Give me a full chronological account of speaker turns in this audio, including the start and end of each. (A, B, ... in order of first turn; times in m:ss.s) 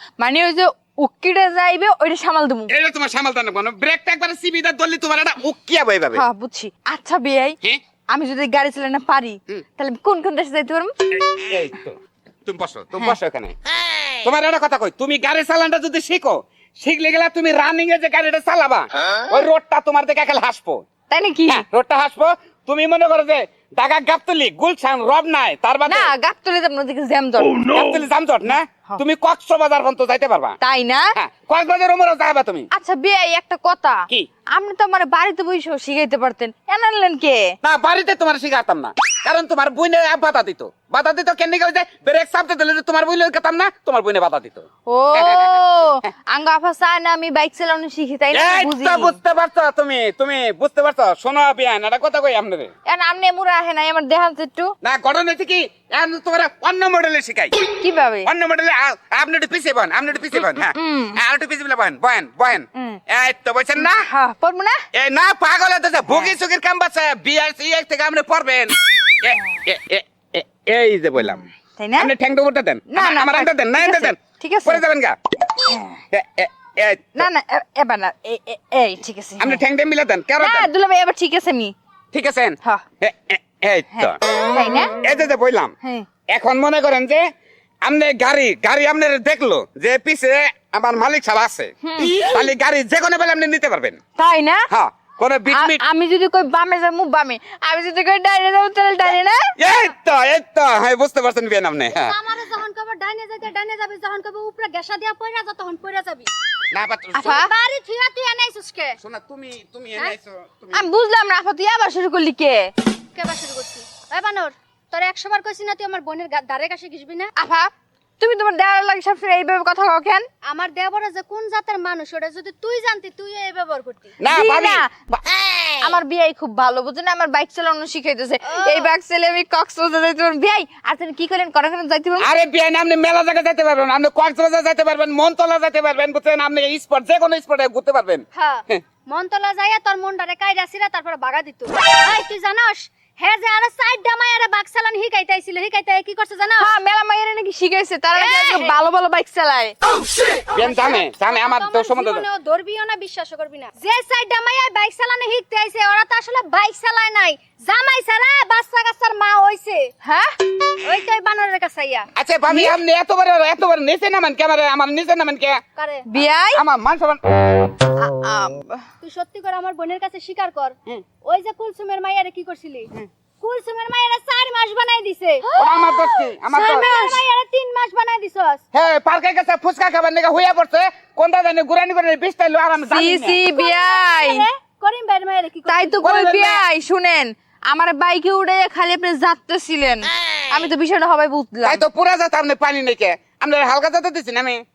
0:00.2-0:02.7 A
0:02.7-0:06.2 B
0:06.1-0:07.6 A
0:08.1-0:10.9 A
0:11.2-0:13.6 B
0:14.2-0:20.8 B
0:21.1-0:21.6 A
0:21.5-0:26.1 B
0:25.8-0:27.8 A
0:27.6-0:30.6 B
0:30.6-0:31.1 A
0:31.1-0:32.7 B
0:32.7-0:37.6 A
0:37.6-0:45.6 B
0:44.9-0:49.2 A
0:48.3-0:52.7 B
0:52.9-0:54.7 A
0:54.8-0:57.6 B
0:57.8-0:58.3 A
0:58.2-1:04.0 B
1:00.3-1:01.2 A
1:02.7-1:03.0 A
1:03.8-1:04.8 A
1:04.9-1:15.2 B
1:06.1-1:06.3 A
1:11.8-1:12.1 A
1:12.9-1:14.8 A
1:15.5-1:16.0 A
1:16.1-1:17.3 B
1:17.2-1:19.6 A
1:19.4-1:20.7 B
1:20.4-1:21.7 A
1:22.1-1:24.2 B
1:23.9-1:24.9 A
1:25.0-1:25.7 B
1:26.3-1:27.2 B
1:27.8-1:34.0 B
1:31.8-1:32.4 A
1:34.2-1:34.6 A
1:34.7-1:35.8 B
1:35.5-1:39.5 A
1:39.6-1:42.1 B
1:41.9-1:46.3 C
1:46.7-1:47.4 B
1:47.1-1:47.5 A
1:47.3-1:49.0 C
1:49.0-1:50.9 B
1:50.7-1:52.7 A
1:53.1-1:57.3 C
1:57.4-2:00.3 A
2:00.4-2:04.2 C
2:04.2-2:05.8 B
2:04.3-2:04.9 A
2:05.8-2:12.3 A
2:08.4-2:08.9 C
2:12.2-2:18.8 B
2:18.3-2:26.7 C
2:26.6-2:29.7 A
2:28.1-2:28.8 C
2:30.5-2:32.2 B
2:30.5-2:39.9 C
2:40.0-2:40.3 A
2:40.8-2:42.1 C
2:42.1-2:45.6 B
2:42.5-2:42.8 A
2:45.8-2:46.1 C
2:46.1-2:46.6 A
2:46.5-2:47.2 B
2:47.8-2:48.8 A
2:49.0-2:52.9 C
2:53.4-2:55.6 C
2:55.6-2:56.9 B
2:56.5-2:58.6 C
2:56.5-2:57.2 A
2:58.7-3:03.4 B
3:02.8-3:04.4 A
3:03.5-3:06.1 C
3:05.6-3:11.8 A
3:06.0-3:06.6 B
3:11.6-3:14.6 B